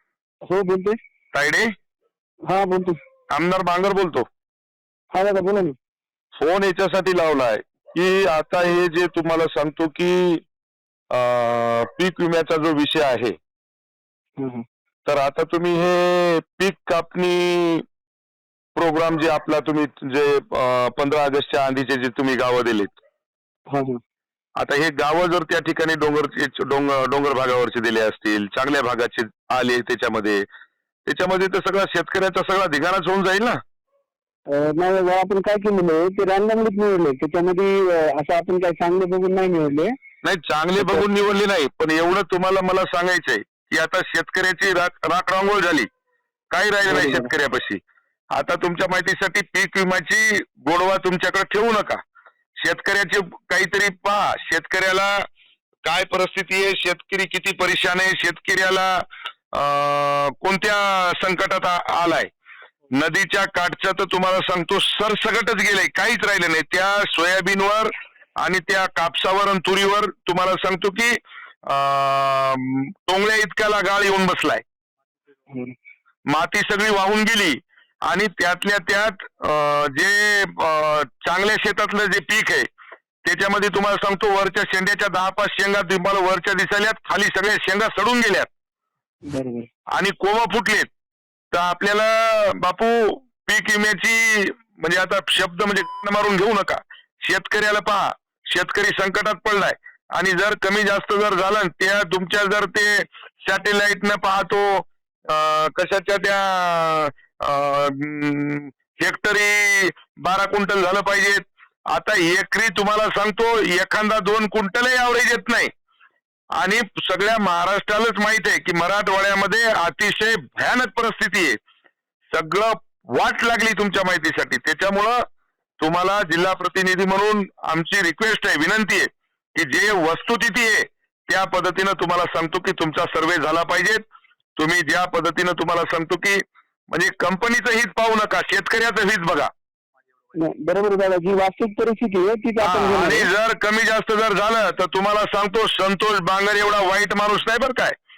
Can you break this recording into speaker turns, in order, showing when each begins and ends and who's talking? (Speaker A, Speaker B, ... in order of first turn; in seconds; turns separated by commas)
Speaker A: 0.5-1.0, Speaker B: 1.3-1.7, Speaker A: 2.5-3.0, Speaker B: 3.3-4.2, Speaker A: 5.1-5.7, Speaker B: 6.4-10.4, Speaker B: 11.1-13.3, Speaker A: 14.4-14.6, Speaker B: 15.1-17.8, Speaker B: 18.8-23.0, Speaker A: 23.7-24.0, Speaker B: 24.6-30.4, Speaker B: 31.1-33.6, Speaker A: 34.5-39.9, Speaker B: 40.2-45.9, Speaker B: 46.5-47.8, Speaker A: 46.9-47.3, Speaker B: 48.3-52.0, Speaker B: 52.6-55.2, Speaker B: 55.8-62.3, Speaker B: 62.9-74.6, Speaker B: 76.3-82.7, Speaker B: 83.2-88.5, Speaker A: 89.2-89.7, Speaker B: 89.9-90.9, Speaker B: 91.5-115.7, Speaker B: 116.6-121.6, Speaker B: 122.3-125.2, Speaker B: 125.8-134.0, Speaker B: 134.6-139.5, Speaker A: 140.3-143.3, Speaker B: 142.6-147.9